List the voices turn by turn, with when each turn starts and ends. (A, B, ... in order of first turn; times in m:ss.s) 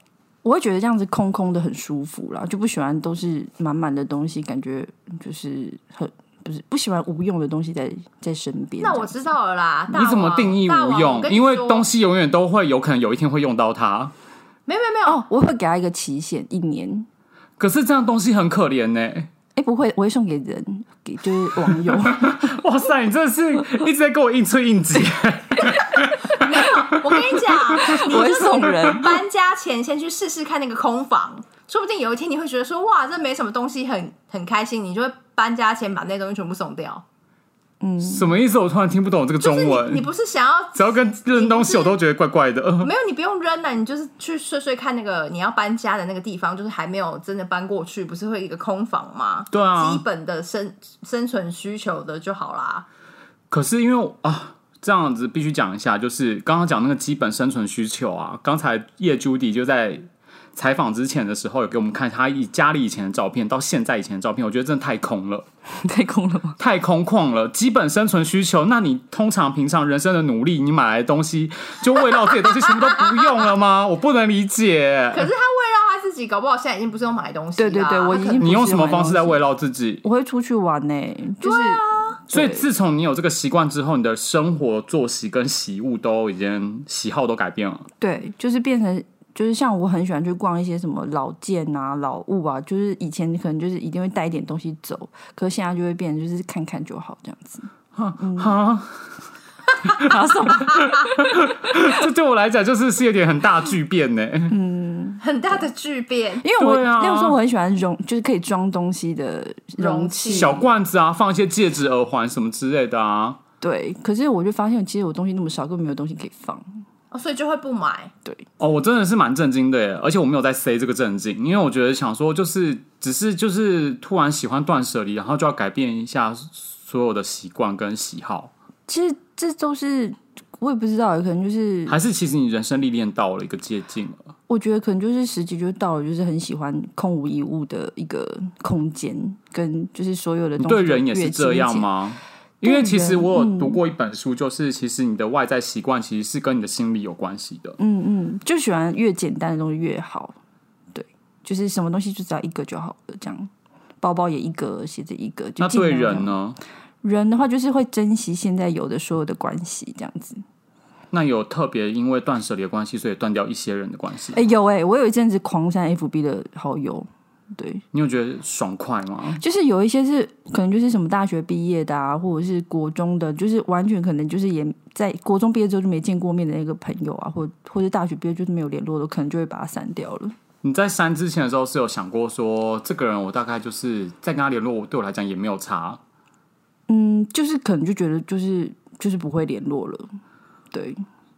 0:00.4-0:09.2 A
0:08.8-0:11.9 B
0:09.9-0:14.1 C
0:14.7-0:15.2 B
0:15.1-0:17.1 A
0:17.6-0:19.3 C
0:19.6-0:22.5 A
0:22.0-0:28.0 C
0:26.3-0:37.0 B
0:27.8-0:29.2 A
0:37.8-0:38.3 A
0:38.0-0:40.1 C
0:39.4-0:42.0 B
0:40.8-0:42.9 C
0:42.8-0:52.8 B
0:49.5-0:50.0 C
0:53.5-1:00.0 C
1:00.6-1:05.5 C
1:05.8-1:06.6 A
1:06.6-1:15.3 C
1:15.1-1:18.5 B
1:17.6-1:19.4 A
1:18.4-1:20.0 C
1:20.0-1:22.7 A
1:21.4-1:22.2 B
1:22.3-1:27.9 C
1:28.0-1:38.6 A
1:38.0-1:39.0 C
1:39.9-1:44.6 C
1:40.0-1:42.0 A
1:44.5-1:45.6 A
1:45.2-1:46.4 B
1:46.4-1:50.7 A
1:46.6-1:47.4 C
1:49.8-1:50.6 B
1:50.3-1:53.4 C
1:53.6-1:56.6 A
1:57.1-1:58.1 B
1:58.6-2:08.5 C
2:08.9-2:12.0 A
2:11.9-2:14.3 C
2:14.5-2:21.9 A
2:20.6-2:27.8 C
2:22.6-2:23.8 A
2:27.8-2:30.4 A
2:30.9-2:36.3 A
2:35.6-2:36.6 C
2:37.0-2:40.4 A
2:41.1-2:44.4 C
2:44.3-2:47.8 A
2:47.9-2:49.4 C
2:49.4-3:00.4 A
3:00.6-3:06.0 C
3:06.9-3:10.1 A
3:10.7-3:11.0 A